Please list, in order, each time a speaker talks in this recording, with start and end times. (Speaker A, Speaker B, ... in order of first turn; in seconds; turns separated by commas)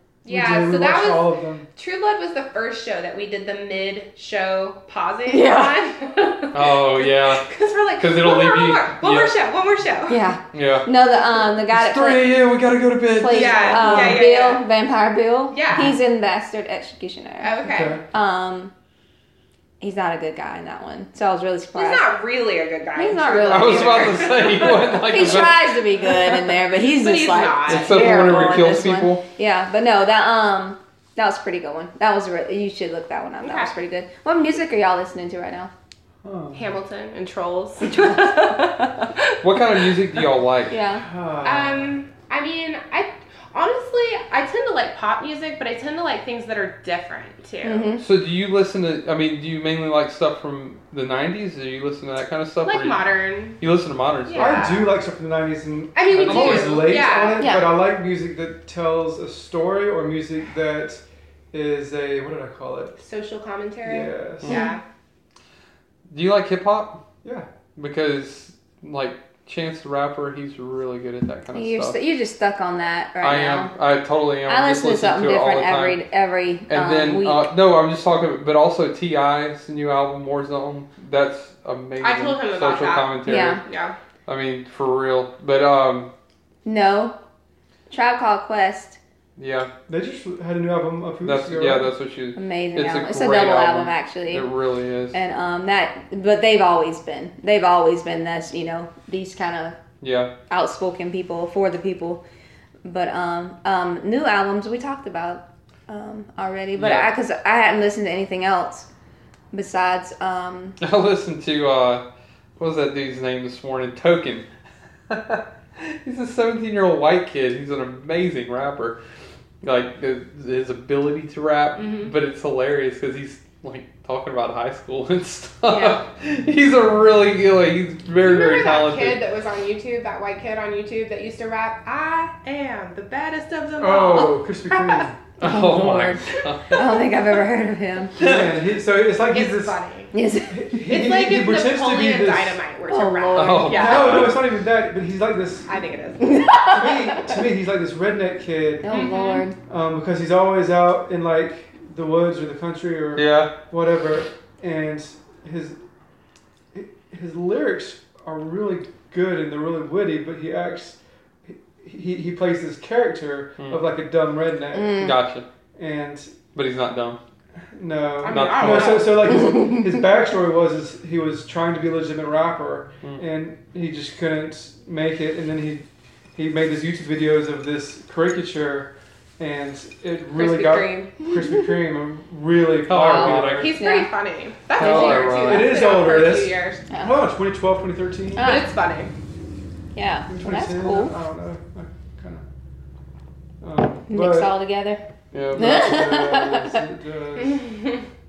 Speaker A: 0.2-10.2, Speaker B: 0.3-1.7, Speaker C: 5.3-5.8, Speaker D: 6.5-7.5, Speaker D: 8.0-9.3, Speaker C: 10.1-12.3, Speaker D: 10.5-10.9, Speaker D: 11.7-14.2, Speaker C: 13.1-17.5, Speaker A: 13.3-14.7, Speaker A: 15.5-16.0, Speaker A: 17.4-18.0, Speaker B: 17.6-18.0, Speaker C: 18.1-18.7, Speaker C: 19.8-22.1, Speaker A: 21.8-25.4, Speaker C: 23.0-24.4, Speaker D: 23.5-25.7, Speaker C: 25.0-35.7, Speaker A: 26.9-28.4, Speaker D: 27.7-29.2, Speaker A: 33.4-33.7, Speaker B: 36.2-36.7, Speaker A: 36.5-40.0, Speaker C: 38.0-38.5, Speaker D: 39.4-40.7, Speaker C: 40.7-41.0, Speaker B: 41.0-42.0, Speaker A: 41.4-48.0, Speaker C: 47.6-48.0, Speaker D: 48.0-53.0, Speaker A: 52.6-53.6, Speaker D: 53.6-54.6, Speaker A: 54.3-55.0, Speaker B: 54.4-63.0, Speaker A: 56.0-57.6, Speaker D: 56.2-57.0, Speaker C: 57.4-57.7, Speaker A: 63.0-64.8, Speaker B: 63.9-64.6, Speaker C: 64.5-64.8, Speaker D: 66.1-67.0, Speaker D: 67.8-72.0, Speaker C: 71.5-73.7, Speaker D: 73.2-76.0, Speaker C: 74.5-77.5, Speaker D: 76.7-83.6, Speaker A: 82.0-84.0, Speaker C: 83.3-83.6, Speaker D: 84.3-86.1, Speaker C: 86.7-87.2, Speaker C: 87.9-89.0, Speaker D: 89.4-89.7, Speaker B: 89.9-91.9, Speaker D: 91.2-95.2, Speaker C: 92.3-94.5, Speaker C: 95.1-99.8, Speaker D: 100.0-100.3, Speaker C: 100.5-102.2, Speaker C: 102.8-108.9, Speaker D: 106.8-107.1, Speaker C: 109.5-110.8, Speaker D: 110.8-112.0, Speaker D: 112.6-114.5, Speaker D: 115.1-119.0, Speaker D: 119.6-129.2, Speaker A: 121.8-122.1, Speaker A: 128.2-135.1, Speaker B: 133.8-135.2, Speaker D: 135.4-136.9, Speaker C: 135.4-138.2, Speaker B: 138.2-139.8, Speaker D: 138.2-138.6, Speaker A: 139.3-140.1, Speaker C: 140.1-140.8, Speaker B: 140.5-142.6, Speaker A: 140.9-144.4, Speaker C: 142.9-143.8, Speaker D: 143.3-144.4, Speaker B: 143.7-145.7, Speaker A: 145.7-146.6, Speaker C: 146.2-147.4, Speaker B: 146.6-149.1, Speaker C: 148.8-149.6, Speaker A: 148.9-149.5, Speaker B: 149.6-155.8, Speaker D: 153.2-153.5, Speaker B: 156.7-165.0, Speaker C: 164.7-165.2, Speaker D: 164.9-165.4, Speaker B: 165.8-166.4, Speaker D: 166.6-167.2, Speaker B: 167.7-183.7, Speaker A: 168.2-169.3, Speaker D: 168.3-169.3, Speaker A: 180.3-181.2, Speaker D: 182.9-183.7, Speaker A: 183.1-186.8, Speaker C: 183.8-184.1, Speaker D: 184.8-185.8, Speaker B: 184.8-188.5, Speaker C: 186.9-187.2, Speaker C: 188.4-188.7, Speaker A: 188.4-189.1, Speaker C: 189.9-191.2, Speaker B: 190.3-192.5, Speaker B: 193.6-194.6, Speaker C: 194.1-195.0, Speaker D: 195.3-195.8, Speaker B: 195.5-197.7, Speaker C: 195.6-196.8, Speaker A: 197.4-198.1